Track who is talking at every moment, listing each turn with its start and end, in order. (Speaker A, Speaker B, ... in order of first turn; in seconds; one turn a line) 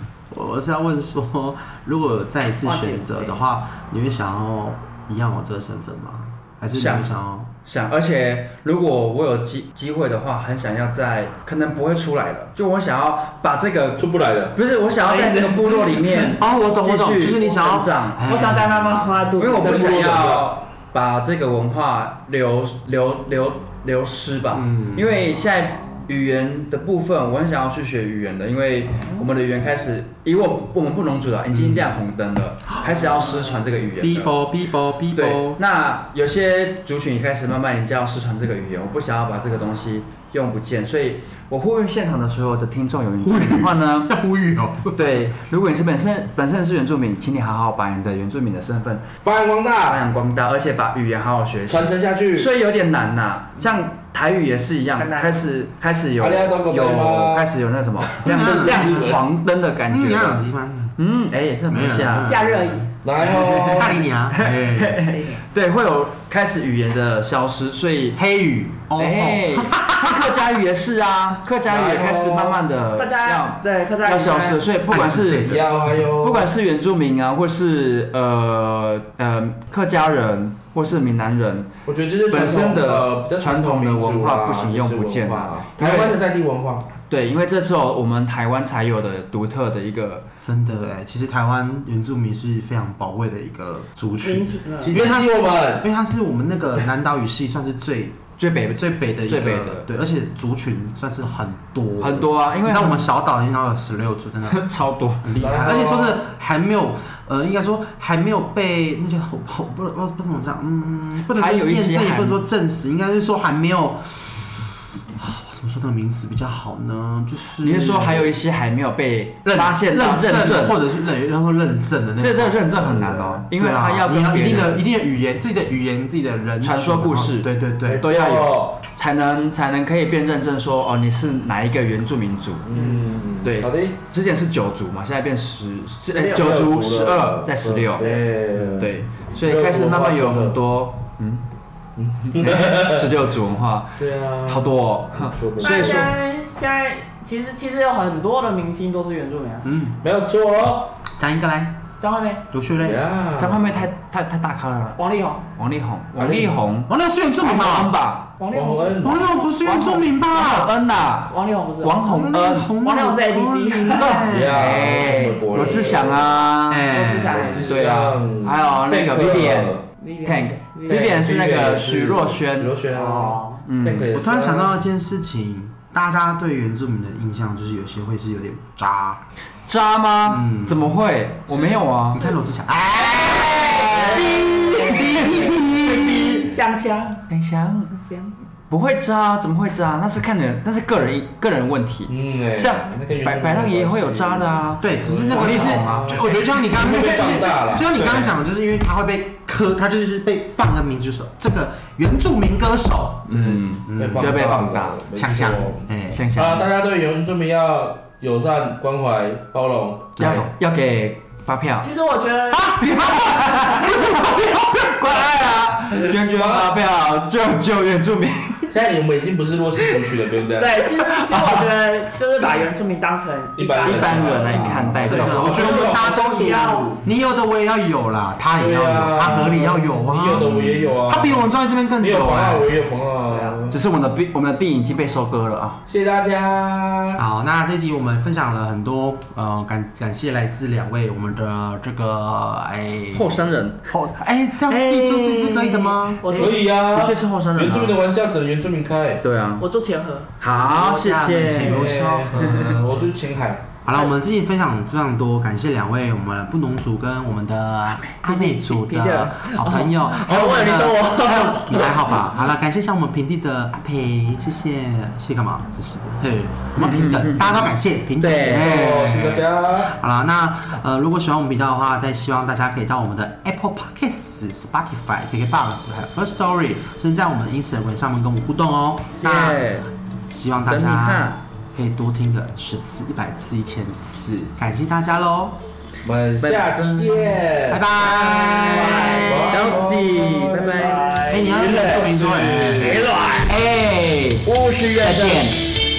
Speaker A: 0.3-7.5
Speaker B: 2.6-3.3
Speaker B: 6.7-7.1
Speaker B: 7.6-18.2
Speaker C: 14.0-14.6
Speaker D: 15.0-16.1
Speaker A: 16.2-19.0
Speaker D: 18.3-20.1
Speaker B: 19.4-34.3
Speaker C: 19.6-20.6
Speaker A: 24.5-25.2
Speaker A: 31.5-32.0
Speaker A: 34.0-35.6
Speaker B: 35.1-44.1
Speaker A: 43.2-45.1
Speaker B: 45.0-49.0
Speaker C: 49.2-50.0
Speaker B: 49.8-60.5
Speaker C: 51.7-52.5
Speaker D: 55.0-55.4
Speaker C: 56.2-57.5
Speaker C: 58.1-59.2
Speaker A: 58.2-59.2
Speaker A: 59.9-61.0
Speaker B: 61.0-62.3
Speaker A: 61.7-62.9
Speaker D: 62.2-62.9
Speaker C: 63.0-64.0
Speaker B: 63.2-68.2
Speaker A: 63.6-65.1
Speaker D: 65.1-65.4
Speaker A: 68.2-70.4
Speaker B: 69.0-75.6
Speaker C: 71.7-72.6
Speaker D: 73.0-74.6
Speaker A: 74.9-76.1
Speaker C: 75.2-76.5
Speaker B: 76.2-81.7
Speaker C: 81.9-86.9
Speaker B: 82.3-86.2
Speaker B: 87.1-90.2
Speaker A: 90.4-98.2
Speaker D: 94.2-95.0
Speaker C: 94.8-95.9
Speaker B: 98.4-99.9
Speaker A: 98.8-104.6
Speaker B: 102.0-103.1
Speaker B: 104.5-105.3
Speaker A: 105.2-118.3
Speaker C: 105.4-106.2
Speaker B: 111.3-112.4
Speaker B: 117.6-120.8
Speaker A: 119.5-128.1
Speaker B: 122.2-124.8
Speaker B: 126.6-138.2
Speaker C: 127.9-128.8
Speaker C: 132.7-133.9
Speaker C: 136.1-140.6
Speaker B: 138.8-141.4
Speaker C: 142.0-143.1
Speaker B: 142.4-146.1
Speaker C: 144.0-144.7
Speaker C: 145.2-146.1
Speaker D: 145.6-149.7
Speaker A: 149.6-150.0
Speaker C: 150.0-151.0
Speaker A: 151.1-151.8
Speaker D: 152.0-152.4
Speaker A: 152.5-153.0
Speaker C: 152.8-153.8
Speaker B: 153.4-155.0
Speaker D: 155.0-155.4
Speaker B: 155.6-158.3
Speaker C: 156.2-156.6
Speaker A: 156.9-157.9
Speaker D: 158.4-159.2
Speaker C: 158.5-159.3
Speaker A: 159.0-160.7
Speaker B: 159.6-162.7
Speaker D: 161.3-162.3
Speaker A: 162.1-164.8
Speaker D: 162.8-164.2
Speaker B: 163.9-166.9
Speaker C: 164.3-166.3
Speaker D: 165.1-166.2
Speaker A: 166.7-167.8
Speaker D: 166.9-167.8
Speaker C: 167.3-169.8
Speaker B: 167.7-172.8
Speaker D: 170.0-171.2
Speaker C: 170.9-174.8
Speaker D: 172.9-173.6
Speaker B: 173.7-174.2
Speaker A: 174.1-179.2
Speaker B: 179.7-182.3
Speaker A: 180.2-180.9
Speaker A: 182.1-186.5
Speaker B: 183.2-185.5
Speaker C: 183.9-185.6
Speaker D: 184.6-187.2
Speaker B: 187.3-187.9
Speaker D: 187.9-188.3
Speaker B: 188.7-196.3
Speaker C: 192.1-198.4
Speaker A: 194.8-204.5
Speaker B: 203.3-205.0
Speaker C: 204.0-210.4
Speaker A: 205.2-206.2
Speaker B: 206.1-206.7
Speaker A: 210.2-210.5
Speaker B: 210.2-211.9
Speaker D: 211.8-213.8
Speaker A: 212.7-214.9
Speaker B: 212.8-218.7
Speaker C: 215.9-216.7
Speaker C: 218.7-220.9
Speaker D: 220.6-224.8
Speaker B: 221.2-221.7
Speaker C: 223.6-227.0
Speaker B: 223.8-225.8
Speaker A: 225.1-232.8
Speaker D: 225.4-227.0
Speaker C: 228.6-231.5
Speaker C: 232.0-233.8
Speaker D: 233.3-233.6
Speaker B: 233.7-235.8
Speaker C: 235.9-237.2
Speaker A: 237.2-246.3
Speaker B: 243.1-243.9
Speaker B: 244.7-248.0
Speaker D: 246.2-246.6
Speaker C: 246.3-249.2
Speaker B: 249.2-249.7
Speaker D: 249.6-250.3
Speaker B: 250.4-252.8
Speaker A: 250.5-253.1
Speaker C: 251.6-253.7
Speaker A: 253.8-279.6
Speaker D: 258.2-262.1
Speaker B: 266.8-269.3
Speaker C: 268.4-269.9
Speaker B: 279.2-279.9
Speaker A: 280.3-285.6
Speaker B: 280.7-281.4
Speaker C: 286.0-287.9
Speaker B: 286.4-287.4
Speaker A: 287.7-289.5
Speaker B: 288.0-291.2
Speaker D: 288.6-293.5
Speaker C: 289.2-290.4
Speaker A: 291.3-293.1
Speaker C: 291.6-293.5
Speaker B: 293.5-294.4
Speaker D: 294.4-295.5
Speaker B: 295.0-295.6